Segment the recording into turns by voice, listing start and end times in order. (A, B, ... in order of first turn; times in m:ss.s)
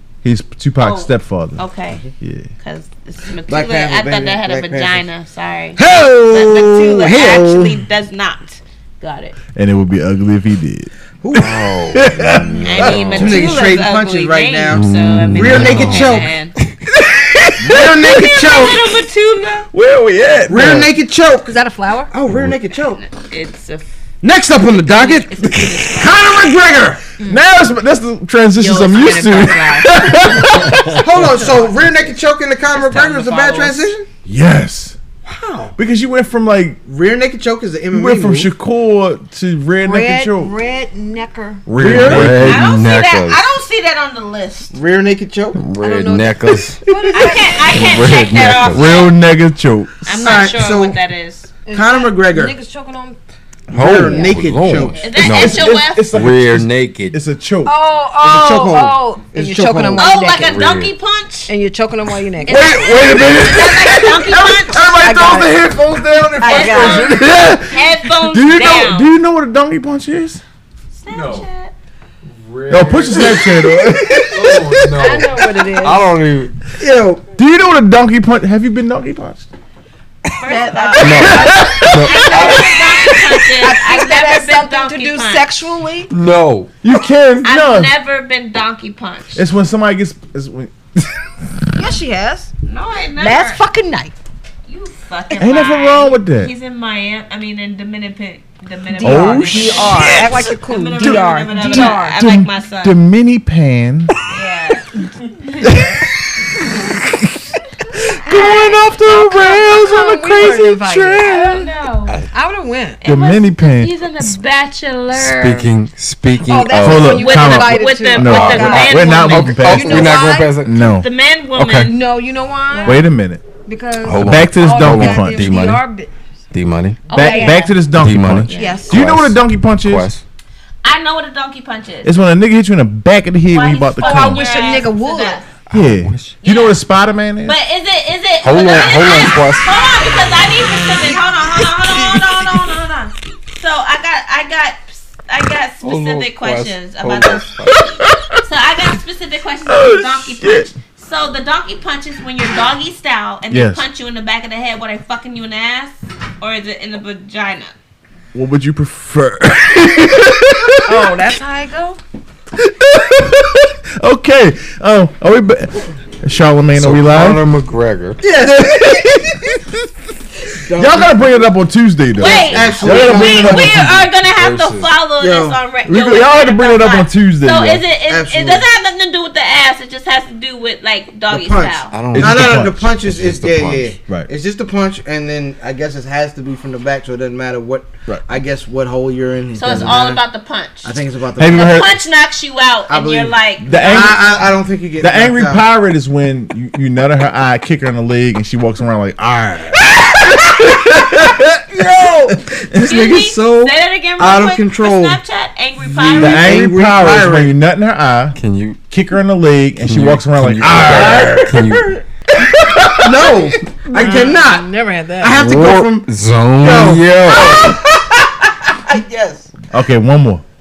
0:00.2-0:01.6 A
0:00.8-0:02.0 B
0:02.2-0:02.5 A
0:02.6-0:09.4 B
0:03.5-0:05.0 C
0:05.8-0:07.8 C
0:09.5-0:13.0 A
0:11.2-0:11.6 C
0:11.3-0:13.6 D
0:12.2-0:16.3 C
0:12.6-0:16.5 B
0:14.7-0:16.7 D
0:17.6-0:18.6 A
0:17.6-0:19.0 C
0:17.7-0:19.7 B
0:19.7-0:20.9 A
0:20.5-0:23.0 C
0:21.5-0:22.1 E
0:22.3-0:22.6 D
0:23.0-0:23.9 B
0:24.2-0:27.1 C
0:24.8-0:26.2 B
0:27.2-0:31.1 A
0:28.6-0:30.5 B
0:30.9-0:34.1 C
0:31.4-0:32.1 B
0:32.7-0:33.9 B
0:34.2-0:35.0 A
0:35.3-0:35.7 C
0:35.8-0:36.8 A
0:36.9-0:38.5 C
0:37.9-0:40.6 A
0:39.8-0:41.7 E
0:41.7-0:42.6 A
0:41.8-0:42.5 C
0:41.8-0:43.4 D
0:42.4-0:44.7 B
0:44.7-0:45.6 C
0:45.6-0:46.8 D
0:45.8-0:48.1 E
0:47.1-0:49.1 B
0:47.7-0:49.0 D
0:48.6-0:50.0 A
0:50.0-0:51.5 B
0:50.1-0:51.0 C
0:51.6-0:53.2 E
0:51.7-0:52.6 C
0:53.7-0:55.4 C
0:53.7-0:57.2 D
0:55.0-0:56.1 B
0:55.2-0:57.7 A
0:57.6-1:00.5 E
0:58.2-1:00.1 C
1:00.0-1:01.5 B
1:00.4-1:00.9 D
1:01.5-1:02.9 E
1:02.4-1:04.9 B
1:02.5-1:10.4 A
1:05.0-1:05.6 E
1:06.4-1:07.2 E
1:06.4-1:09.1 B
1:10.9-1:11.7 B
1:11.1-1:11.4 D
1:12.2-1:13.5 D
1:12.7-1:14.9 A
1:14.2-1:16.5 D
1:14.9-1:16.1 E
1:16.8-1:17.2 C
1:17.4-1:19.5 A
1:20.4-1:25.5 B
1:20.4-1:21.6 E
1:21.0-1:22.7 D
1:21.2-1:22.6 A
1:22.1-1:22.7 E
1:23.6-1:26.1 E
1:26.1-1:26.7 D
1:26.8-1:27.9 A
1:27.4-1:29.4 B
1:29.3-1:31.9 A
1:31.7-1:32.5 E
1:32.6-1:33.6 B
1:33.2-1:34.1 E
1:34.6-1:43.0 B
1:35.4-1:36.5 A
1:38.9-1:42.2 E
1:39.0-1:40.2 A
1:41.0-1:44.1 A
1:44.3-1:45.9 B
1:45.6-1:46.1 A
1:46.7-1:47.5 A
1:48.1-1:51.5 A
1:48.3-1:51.7 E
1:51.2-1:52.2 B
1:52.3-1:53.0 E
1:53.0-1:55.7 B
1:53.0-1:54.3 A
1:55.1-1:57.3 D
1:56.4-2:00.6 E
1:56.8-2:01.9 A
1:57.2-2:00.4 B
1:58.2-2:00.9 D
2:00.9-2:02.0 B
2:01.8-2:03.1 E
2:02.7-2:03.0 B
2:02.8-2:03.4 A
2:03.6-2:06.1 E
2:04.0-2:05.8 D
2:04.1-2:05.5 A
2:06.5-2:07.1 D
2:07.1-2:07.7 B
2:07.1-2:07.7 E
2:07.1-2:10.1 A
2:07.9-2:10.2 D
2:08.5-2:08.9 B
2:08.5-2:09.0 E
2:10.8-2:12.1 B
2:12.0-2:14.6 A
2:13.5-2:15.4 B
2:14.0-2:15.4 E
2:15.7-2:16.3 D
2:15.7-2:17.6 A
2:16.4-2:16.8 B
2:17.4-2:37.7 B
2:18.4-2:19.7 D
2:21.6-2:22.8 A
2:25.8-2:27.8 D
2:27.7-2:28.4 A
2:29.6-2:30.7 A
2:33.5-2:33.8 A
2:38.3-2:41.1 A
2:40.8-2:42.0 E
2:42.6-2:47.4 A
2:46.7-2:48.2 D
2:48.2-2:49.1 C
2:48.3-2:49.8 A
2:50.6-2:51.3 C
2:50.7-2:54.1 A
2:52.2-3:01.9 B
2:52.2-2:53.8 C
2:54.1-2:54.9 D
2:55.2-2:55.6 C
2:55.8-2:57.8 A
2:58.1-2:58.7 C
3:01.3-3:10.2 C
3:01.9-3:03.9 D
3:02.1-3:02.8 A
3:09.5-3:14.3 B
3:10.8-3:11.9 C
3:11.4-3:12.0 A
3:12.9-3:15.6 C
3:13.6-3:22.4 A
3:20.5-3:25.2 C
3:22.8-3:26.6 B
3:25.9-3:27.5 C
3:26.1-3:28.4 A
3:28.3-3:28.8 D
3:28.9-3:31.6 A
3:29.8-3:31.9 D
3:30.8-3:32.0 C
3:32.4-3:33.4 A
3:32.9-3:36.1 C
3:33.9-3:35.4 E
3:35.3-3:37.8 D
3:36.6-3:39.5 C
3:39.7-3:40.4 A